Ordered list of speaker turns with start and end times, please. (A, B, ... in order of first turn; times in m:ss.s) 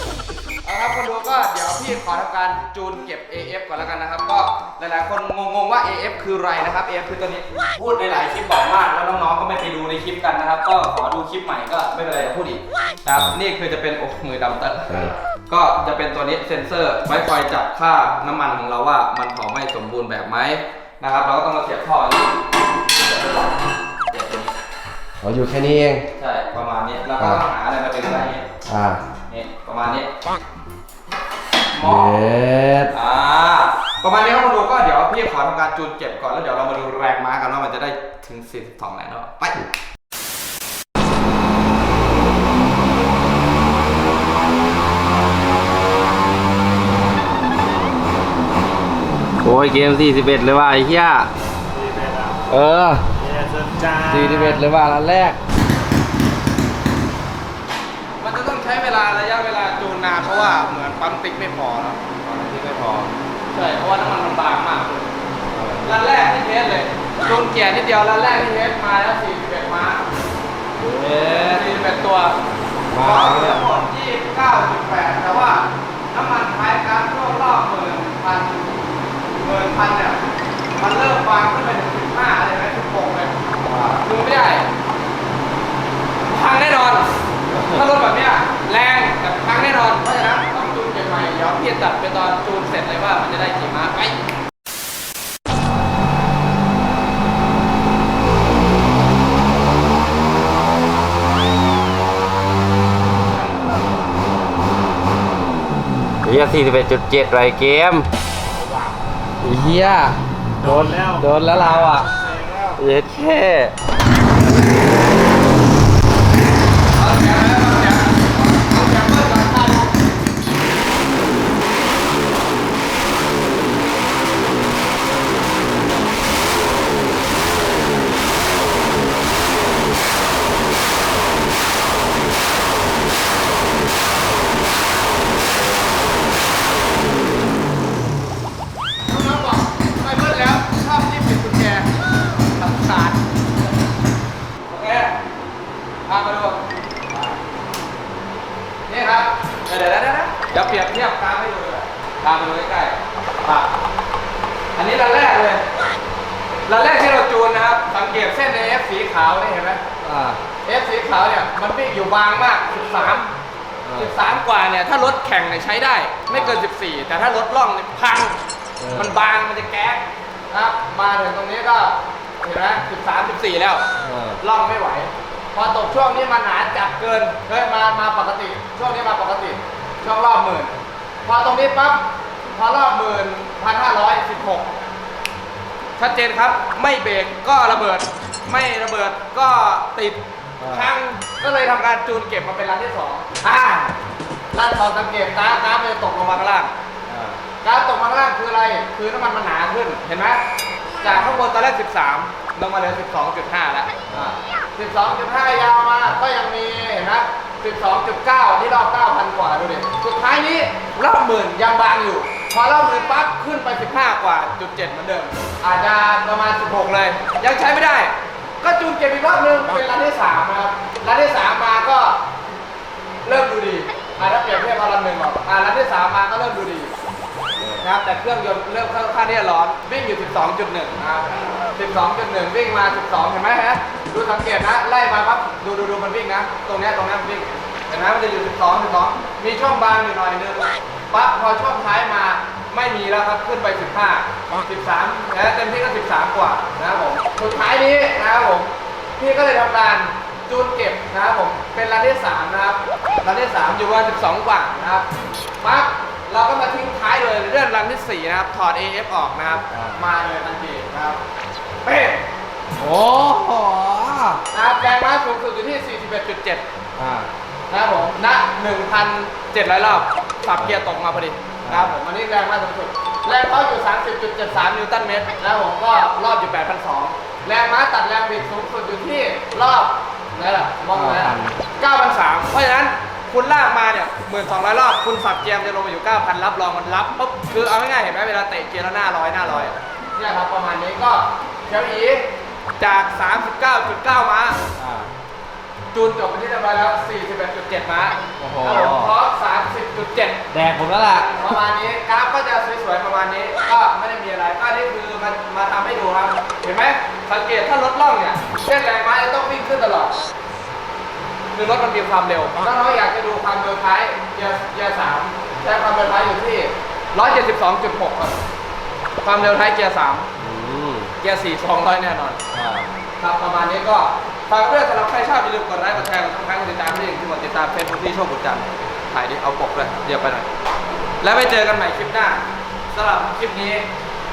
0:00.6-0:14.9 A
0:13.1-0:13.4 B
0:14.9-0:15.1 B
0:15.5-0:22.3 A
0:23.0-0:24.5 A
0:25.2-0:26.1 B
0:26.2-0:28.5 A
0:28.6-0:29.0 B
0:29.3-0:30.1 A
0:31.7-0:32.3 A
0:31.8-0:32.9 B
0:32.9-0:39.6 A
0:49.4-0:51.3 B
0:51.7-0:52.5 C
0:52.5-0:53.1 B
0:53.1-0:54.6 C
0:54.0-0:55.4 B
0:58.2-1:02.0 A
1:02.2-1:03.1 B
1:03.5-1:05.1 A
1:05.5-1:05.9 B
1:05.8-1:10.0 A
1:10.8-1:11.6 B
1:11.2-1:12.4 A
1:12.9-1:13.6 B
1:12.9-1:18.7 A
1:19.4-1:24.7 A
1:26.2-1:27.1 A
1:27.5-1:27.8 B
1:27.7-1:34.2 A
1:46.2-1:48.1 B
1:48.5-1:48.9 C
1:49.4-1:52.1 B
1:50.6-1:52.8 C
1:52.8-1:53.7 B
1:56.9-2:00.0 A
2:19.1-2:23.2 A
2:24.7-2:25.2 A
2:26.1-2:27.4 A
2:28.9-2:33.7 A
2:34.7-2:35.6 A
2:36.7-2:39.8 A
2:40.0-2:40.4 B
2:40.6-2:43.3 A
2:43.8-2:44.1 B
2:43.9-2:48.4 A
2:46.3-2:46.6 B
2:48.8-2:49.1 B
2:48.9-2:53.8 A
2:54.0-2:54.4 B
2:54.4-3:00.7 A
3:01.2-3:04.7 A
3:06.0-3:14.0 A
3:10.6-3:10.9 B
3:14.5-3:16.7 A
3:17.1-3:17.4 B
3:17.6-3:20.4 A
3:21.0-3:42.2 A
3:24.1-3:24.3 B
3:43.2-3:46.9 A
3:47.8-4:15.0 A
4:15.6-4:21.2 A
4:19.7-4:20.0 B
4:21.8-4:22.2 A
4:22.8-4:24.4 B
4:24.5-4:26.6 A
4:27.0-4:27.3 B
4:27.7-4:54.6 A
4:31.6-4:31.9 B
4:40.9-4:41.6 B
4:54.8-4:55.1 B
4:55.9-5:00.5 A
4:58.4-4:59.1 B
5:00.5-5:01.6 B
5:01.3-5:10.2 A
5:11.5-5:18.4 A
5:19.2-5:20.3 A
5:20.4-5:21.1 B
5:21.2-5:22.6 A
5:22.5-5:22.8 B
5:23.2-5:30.5 A
5:31.2-5:33.9 A